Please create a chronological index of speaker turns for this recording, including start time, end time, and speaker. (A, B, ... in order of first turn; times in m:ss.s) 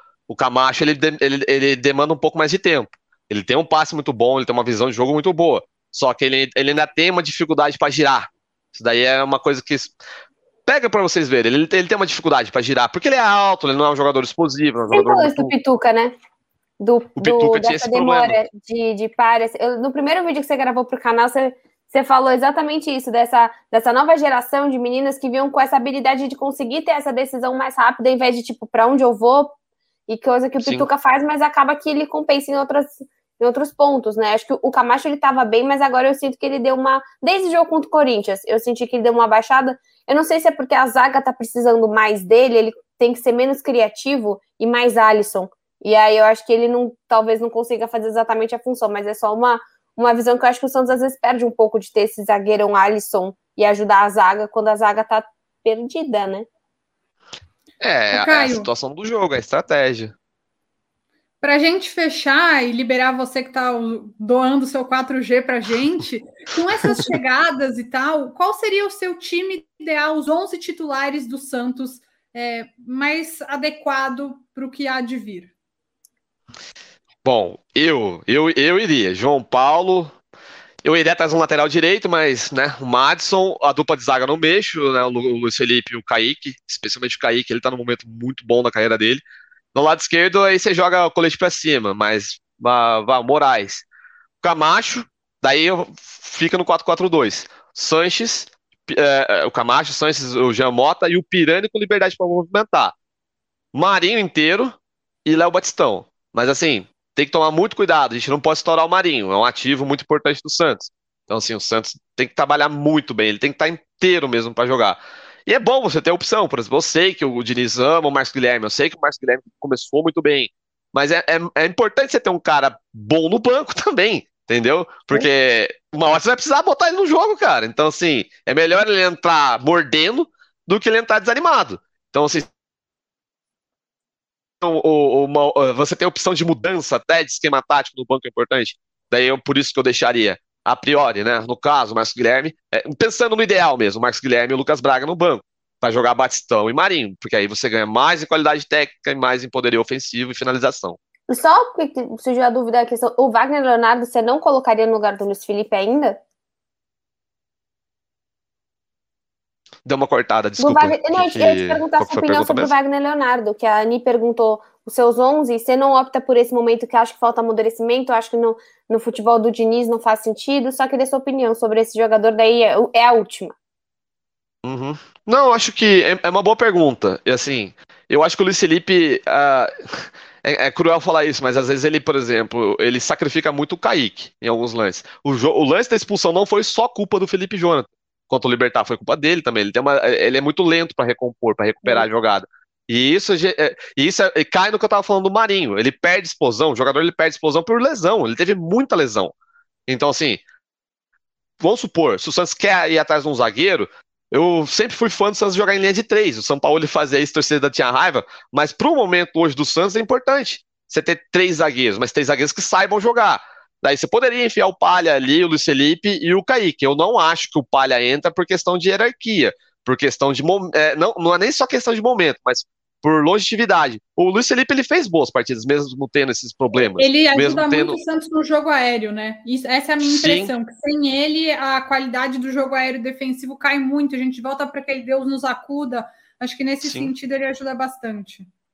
0:00.3-0:09.9 A
0:10.6-0:15.5 A
0:14.9-0:16.1 B
0:16.8-0:29.5 B
0:17.2-0:18.4 A
0:30.1-0:56.5 B
0:30.6-0:30.9 A
0:57.8-1:00.1 A
0:58.1-0:58.7 C
1:01.4-1:15.5 C
1:17.2-1:20.1 A
1:20.8-1:29.2 A
1:29.7-1:33.8 A
1:34.4-1:42.9 A
1:43.7-1:44.7 A
1:45.2-2:12.5 A
2:14.6-2:31.0 A
2:31.3-2:36.2 B
2:39.8-2:42.7 A
2:40.6-2:53.5 B
2:54.6-3:19.3 A
3:19.9-3:20.4 A
3:21.6-3:48.0 A
3:47.0-3:58.5 C
3:50.0-3:50.5 A
3:56.8-3:57.1 A